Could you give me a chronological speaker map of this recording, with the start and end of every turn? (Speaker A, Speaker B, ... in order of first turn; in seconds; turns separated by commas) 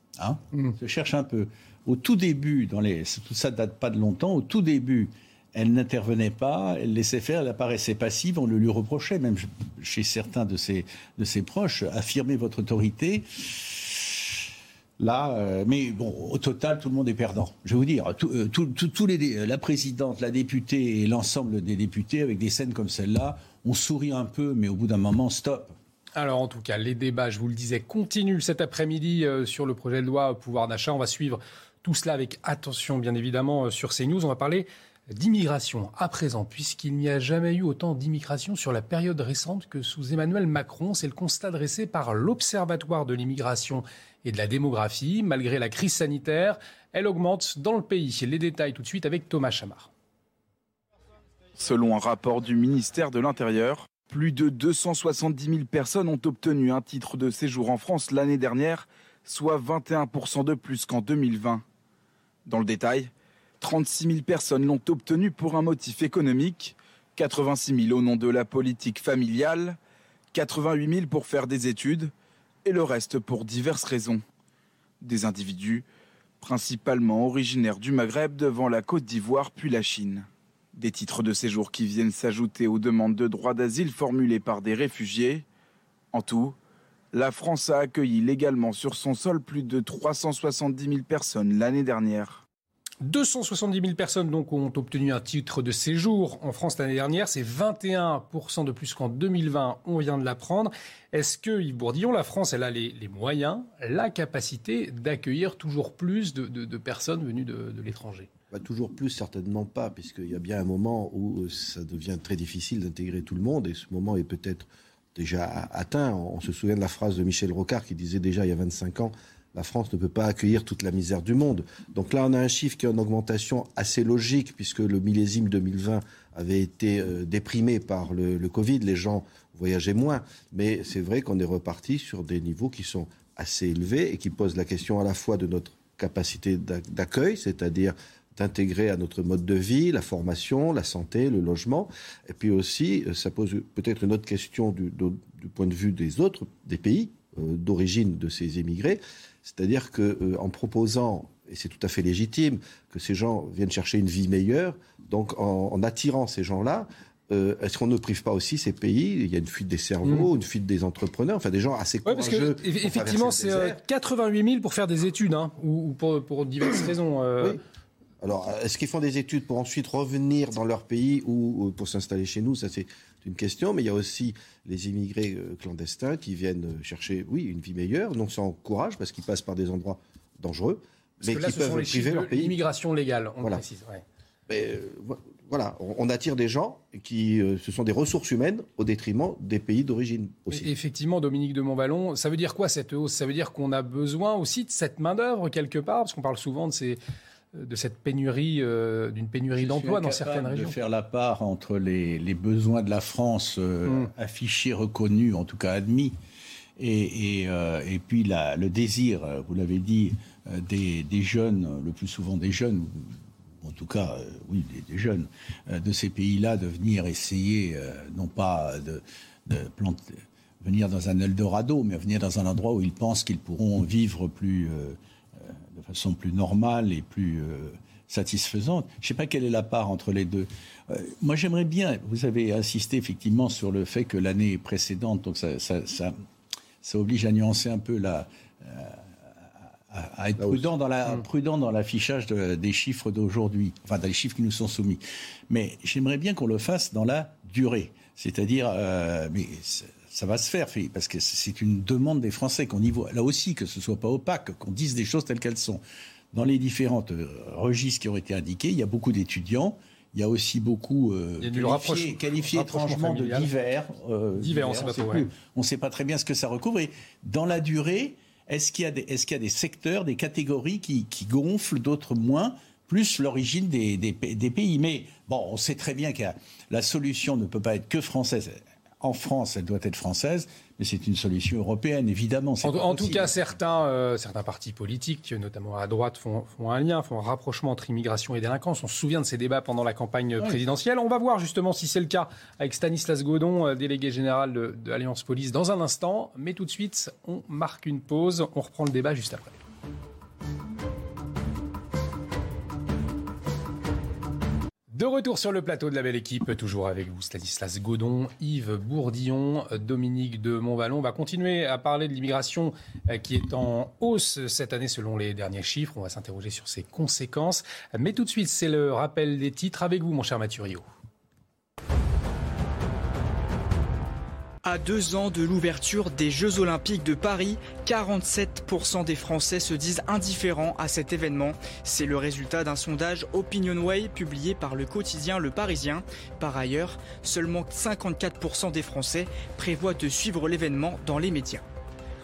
Speaker A: 0.2-14.3, Speaker A: 15.0-25.7, Speaker B: 26.1-49.9, Speaker C: 51.6-61.6, Speaker C: 62.5-69.8, Speaker C: 70.3-72.1, Speaker C: 72.6-74.2, Speaker C: 75.0-75.8, Speaker C: 76.4-85.4, Speaker C: 86.1-86.5, Speaker C: 87.1-92.4, Speaker B: 93.0-108.3, Speaker D: 108.5-163.8, Speaker B: 162.0-167.6, Speaker D: 168.2-182.6, Speaker B: 181.2-184.0, Speaker D: 184.5-190.7, Speaker B: 190.5-197.0, Speaker B: 197.5-200.8, Speaker A: 199.6-206.2, Speaker B: 203.8-204.1, Speaker A: 206.8-236.2, Speaker A: 236.8-255.8, Speaker D: 240.4-240.7, Speaker A: 256.3-283.4, Speaker B: 261.4-263.5, Speaker B: 264.4-265.3, Speaker B: 282.6-299.6, Speaker B: 304.9-320.8, Speaker E: 324.6-341.6